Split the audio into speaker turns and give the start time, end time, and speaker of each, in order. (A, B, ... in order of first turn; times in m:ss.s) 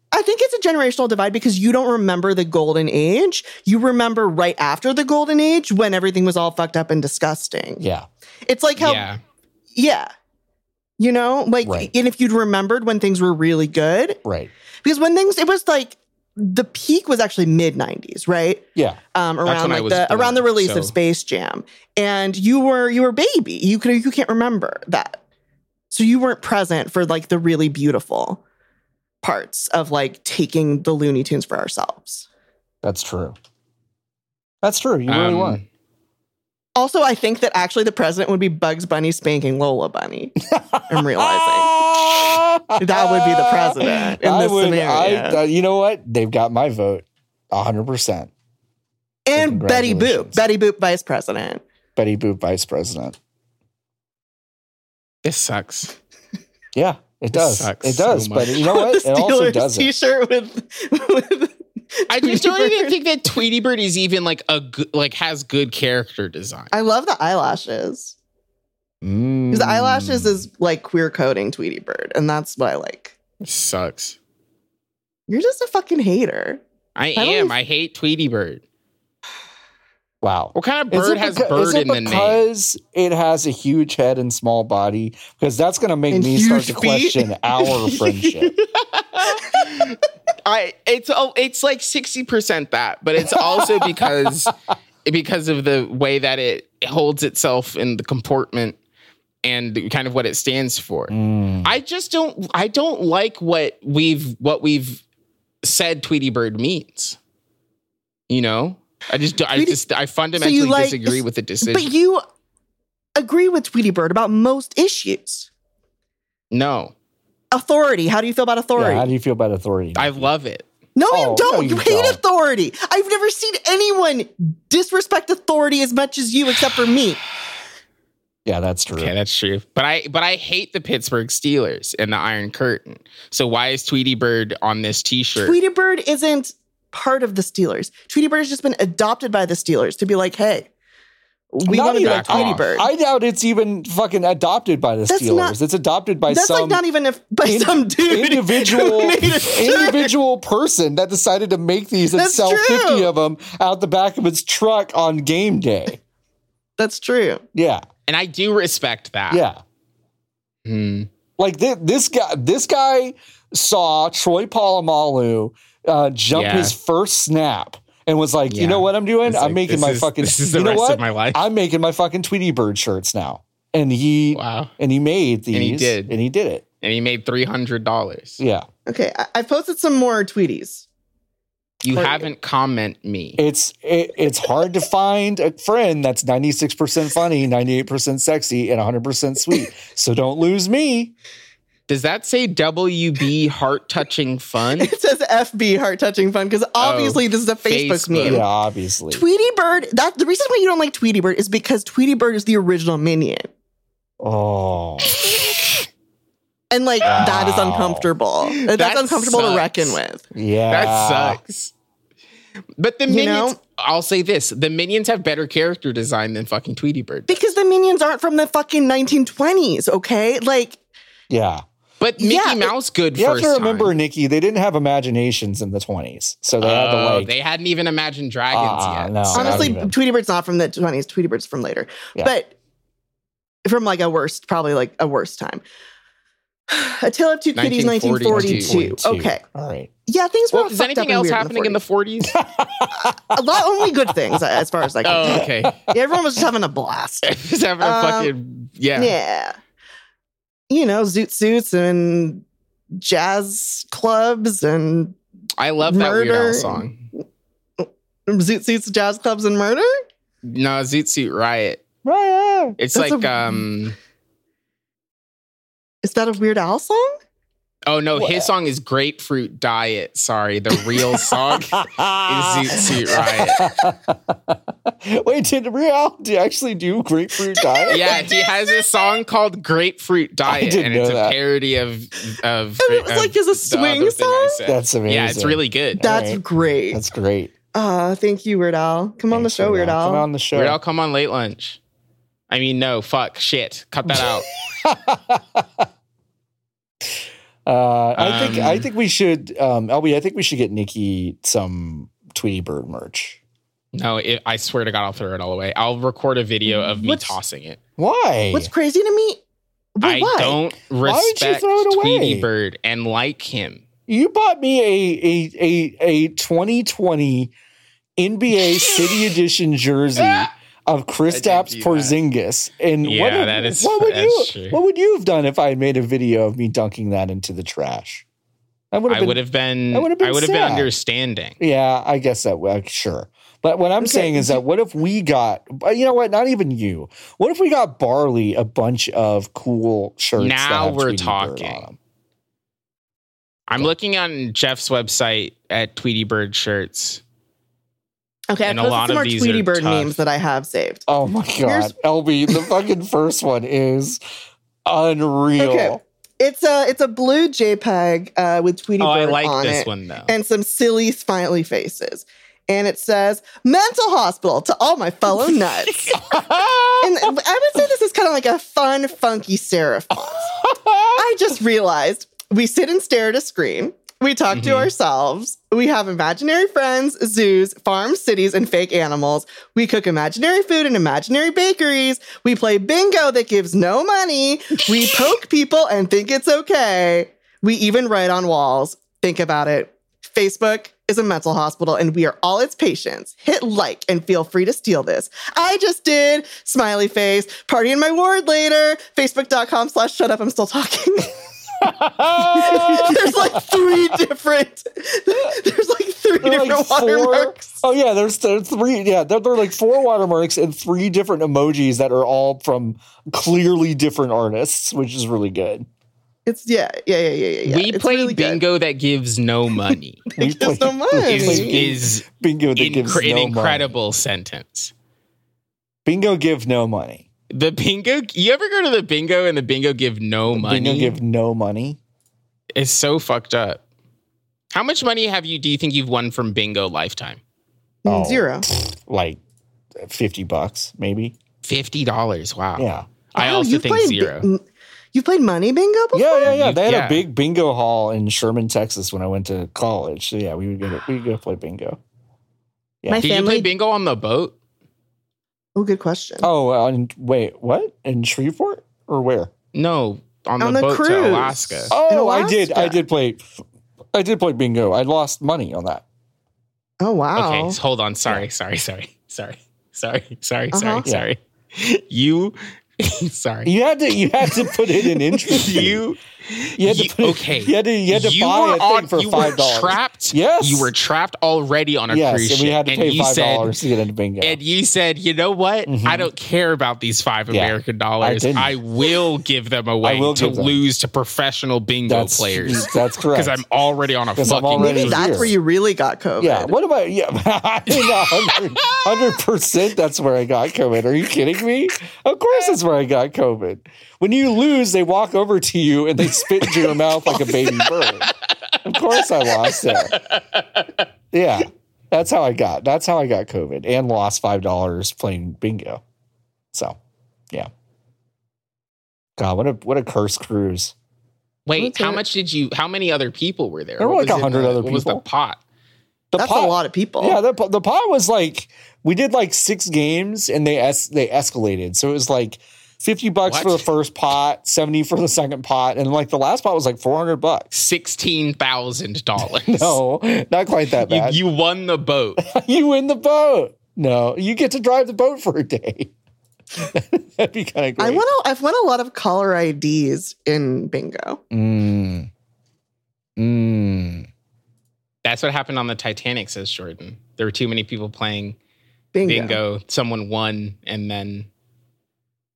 0:00.1-0:07.8 A
0:07.8-0:08.1 B
0:08.5-0:09.1 A
0:08.8-0:09.2 C
0:09.8-0:10.1 A
0:11.0-0:14.2 A
0:11.6-0:11.9 B
0:14.2-0:14.5 B
0:14.8-0:25.2 A
0:19.4-0:20.9 C
0:25.9-0:28.4 A
0:29.2-0:32.3 A
0:32.8-0:33.4 B
0:34.6-0:35.6 B
0:35.1-0:35.6 C
0:36.8-0:40.4 A
0:40.5-0:48.3 B
0:40.9-0:45.4 A
0:49.3-0:51.6 A
0:49.4-0:50.4 B
0:52.0-0:53.2 B
0:55.2-0:55.9 C
0:56.8-0:59.9 B
0:57.3-0:58.6 C
0:58.5-1:03.0 A
1:02.1-1:06.7 C
1:06.7-1:08.2 A
1:09.0-1:10.4 B
1:09.5-1:13.2 A
1:13.4-1:14.2 C
1:15.3-1:16.6 A
1:17.0-1:18.6 C
1:17.2-1:17.6 A
1:20.2-1:28.5 B
1:20.6-1:22.4 C
1:26.1-1:28.5 A
1:28.9-1:34.5 C
1:29.4-1:29.6 A
1:35.0-1:38.8 C
1:39.4-1:41.1 C
1:41.1-1:41.7 B
1:41.6-1:45.0 C
1:45.6-1:47.2 C
1:48.3-1:51.9 C
1:50.4-1:52.2 A
1:53.2-1:55.5 A
1:56.5-1:56.9 C
1:57.5-1:59.1 A
1:58.8-2:00.3 B
2:00.0-2:00.7 C
2:01.0-2:07.2 A
2:01.1-2:02.2 B
2:08.5-2:09.1 B
2:09.0-2:15.6 C
2:15.4-2:20.7 A
2:21.5-2:22.9 A
2:21.7-2:26.8 B
2:22.0-2:22.8 C
2:25.1-2:25.6 A
2:26.3-2:30.1 A
2:27.4-2:36.0 B
2:32.1-2:33.1 A
2:36.8-2:37.4 A
2:37.5-2:37.8 B
2:38.1-2:39.4 C
2:39.3-2:39.6 B
2:40.6-2:41.1 C
2:41.4-2:56.6 B
2:46.3-2:46.8 C
2:48.5-2:51.5 C
2:54.3-2:54.7 C
2:55.5-2:56.2 C
2:56.8-2:58.4 C
2:58.4-2:58.7 B
2:58.9-3:00.9 A
3:01.8-3:03.4 C
3:01.9-3:02.3 A
3:03.4-3:11.1 B
3:11.9-3:14.9 C
3:14.8-3:18.5 A
3:16.8-3:18.4 C
3:18.2-3:19.2 B
3:19.1-3:23.5 A
3:24.2-3:25.2 B
3:26.7-3:30.2 A
3:27.0-3:28.1 B
3:28.4-3:30.0 C
3:30.3-3:31.4 B
3:30.7-3:31.7 C
3:32.8-3:37.5 C
3:33.1-3:33.6 A
3:37.3-3:40.8 A
3:41.3-3:41.6 B
3:42.0-3:43.9 C
3:42.2-3:42.7 A
3:43.2-3:47.3 B
3:46.6-3:49.8 C
3:48.5-3:49.9 B
3:49.3-3:52.5 A
3:53.6-3:55.6 A
3:56.7-3:59.4 A
3:57.6-3:58.8 C
3:58.3-3:59.9 B
4:00.1-4:01.8 A
4:00.5-4:02.4 C
4:02.3-4:03.4 B
4:03.0-4:08.3 A
4:05.0-4:05.8 C
4:05.2-4:05.9 B
4:07.2-4:09.2 C
4:09.0-4:09.6 A
4:10.7-4:12.4 A
4:13.0-4:15.2 A
4:15.6-4:17.0 C
4:15.8-4:16.9 A
4:17.8-4:19.9 A
4:20.4-4:21.8 C
4:22.0-4:22.8 B
4:22.8-4:24.0 C
4:22.9-4:23.6 A
4:26.0-4:27.1 A
4:27.9-4:33.7 C
4:28.2-4:28.5 B
4:31.1-4:38.2 B
4:37.6-4:39.2 A
4:37.9-4:46.0 C
4:40.5-4:41.4 B
4:42.8-4:44.6 A
4:44.7-4:46.4 B
4:46.0-4:47.0 A
4:46.9-4:47.5 B
4:47.7-4:50.3 A
4:49.3-4:50.8 B
4:50.5-4:51.8 C
4:52.5-4:54.5 C
4:54.1-4:55.9 B
4:57.7-5:03.4 B
4:58.2-4:58.9 C
5:03.9-5:07.8 C
5:06.7-5:07.4 A
5:08.0-5:08.7 B
5:08.5-5:09.4 A
5:10.0-5:10.6 A
5:10.0-5:13.8 C
5:11.0-5:12.5 B
5:14.1-5:17.5 B
5:18.2-5:28.2 B
5:18.6-5:19.2 C
5:20.2-5:20.5 C
5:21.3-5:22.2 C
5:23.0-5:24.8 C
5:28.9-5:30.9 B
5:29.1-5:31.6 C
5:31.6-5:42.0 B
5:34.0-5:34.6 A
5:40.4-5:41.9 C
5:43.7-5:47.2 C
5:48.5-5:51.0 A
5:48.6-5:50.2 C
5:51.1-5:54.2 B
5:51.6-5:51.9 A
5:54.9-5:56.0 B
5:55.6-6:06.1 A
5:59.0-6:00.3 C
6:06.0-6:06.8 C
6:06.2-6:07.0 B
6:07.0-6:10.6 A
6:10.6-6:11.2 B
6:11.2-6:41.3 A
6:14.5-6:14.9 C
6:41.8-6:44.1 B
6:42.6-6:47.8 A
6:46.4-6:55.9 B
6:56.5-6:58.6 A
6:57.6-7:00.2 C
7:00.3-7:01.8 A
7:00.4-7:03.9 B
7:01.2-7:02.2 C
7:02.8-7:04.9 C
7:06.0-7:07.2 B
7:07.5-7:11.2 C
7:10.5-7:12.0 B
7:12.8-7:13.8 C
7:14.7-7:17.4 C
7:18.0-7:18.7 A
7:18.1-7:19.4 B
7:20.0-7:21.4 B
7:21.6-7:24.5 C
7:22.8-7:23.1 B
7:23.4-7:24.6 A
7:25.1-7:26.5 A
7:26.1-7:32.0 B
7:26.5-7:27.2 C
7:33.1-7:33.7 A
7:33.2-7:34.6 C
7:35.8-7:36.5 A
7:36.4-7:39.5 B
7:39.7-7:41.9 C
7:40.6-7:43.0 A
7:41.9-7:43.4 B
7:44.1-7:46.0 B
7:47.0-7:47.8 A
7:47.4-7:53.7 C
7:50.7-7:51.1 A
7:53.6-7:56.1 B
7:55.5-8:03.8 C
7:56.8-8:00.9 B
8:02.1-8:04.6 B
8:04.4-8:15.5 C
8:05.9-8:06.3 B
8:07.5-8:08.8 B
8:10.0-8:10.8 B
8:12.1-8:13.6 B
8:14.4-8:15.6 B
8:14.8-8:16.7 A
8:16.4-8:28.3 B
8:17.9-8:19.4 C
8:28.0-8:31.1 C
8:28.8-8:30.2 B
8:31.3-8:36.0 B
8:39.4-8:40.9 B
8:41.7-8:45.6 C
8:41.8-8:42.2 A
8:44.0-8:45.2 B
8:46.3-8:57.7 B
8:46.4-8:47.4 A
8:53.5-8:53.9 C
8:57.7-9:00.0 C
8:59.4-9:01.4 B
9:01.0-9:02.4 C
9:02.4-9:06.1 B
9:06.8-9:08.2 B
9:08.0-9:11.4 A
9:11.5-9:12.3 B
9:13.4-9:14.3 B
9:15.2-9:18.6 C
9:19.1-9:19.6 A
9:19.2-9:21.5 C